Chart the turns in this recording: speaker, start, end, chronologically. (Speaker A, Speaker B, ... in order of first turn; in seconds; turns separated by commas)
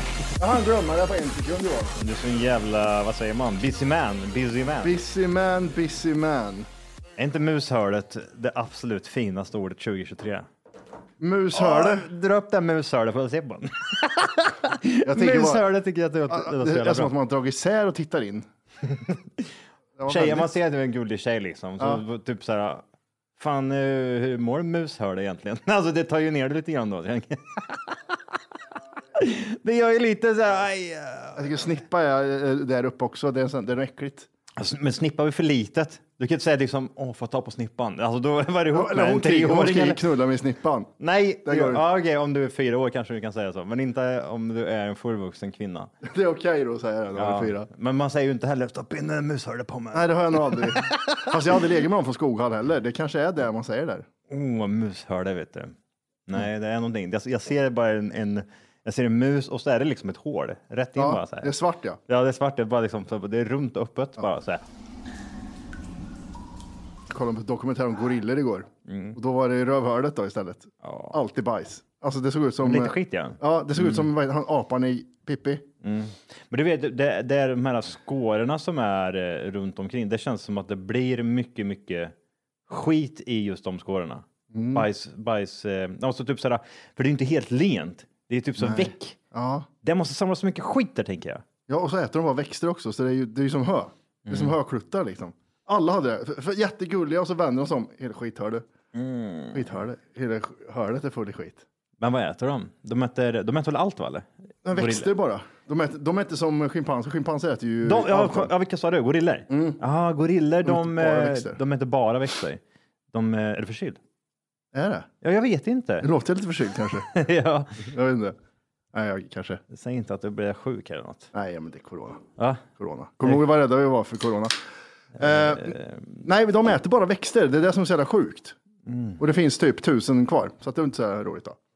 Speaker A: 0.4-1.9, Speaker B: 2.0-5.0, Speaker A: 4.8-6.7, Speaker B: 7.2-10.5, Speaker A: 11.2-12.1, Speaker B: 11.5-17.1, Speaker A: 15.0-15.6, Speaker A: 16.3-18.5, Speaker B: 18.9-19.4, Speaker A: 20.0-20.5, Speaker B: 20.1-22.8, Speaker B: 23.4-28.2, Speaker B: 29.1-31.4, Speaker A: 31.4-34.3, Speaker B: 34.6-40.0, Speaker A: 38.7-40.9, Speaker B: 41.0-45.9, Speaker A: 41.4-41.8, Speaker A: 46.0-47.7, Speaker B: 47.1-51.4, Speaker A: 49.9-54.1, Speaker B: 54.3-55.7, Speaker B: 56.3-61.5, Speaker A: 61.0-62.0, Speaker B: 62.1-64.6, Speaker A: 67.1-75.7, Speaker B: 68.9-69.2, Speaker B: 70.8-71.2, Speaker B: 72.6-74.1, Speaker B: 75.8-82.1, Speaker B: 82.7-89.2, Speaker A: 84.5-84.8, Speaker A: 88.6-89.7, Speaker B: 89.8-91.4, Speaker A: 91.7-98.7, Speaker B: 94.2-94.5, Speaker B: 98.9-99.6, Speaker A: 99.5-101.6, Speaker B: 102.0-105.1, Speaker A: 104.6-108.5, Speaker B: 107.8-112.6, Speaker A: 109.5-109.8, Speaker A: 110.6-111.6, Speaker B: 113.1-114.0, Speaker A: 114.7-115.1, Speaker B: 115.2-116.1, Speaker A: 116.0-117.1, Speaker B: 117.1-117.8, Speaker A: 117.8-118.3, Speaker A: 118.9-119.6, Speaker B: 119.7-121.3, Speaker A: 121.3-122.2, Speaker B: 122.4-122.6, Speaker A: 122.8-124.6, Speaker B: 125.2-126.2, Speaker A: 125.2-128.6, Speaker B: 128.8-129.2, Speaker A: 129.2-131.6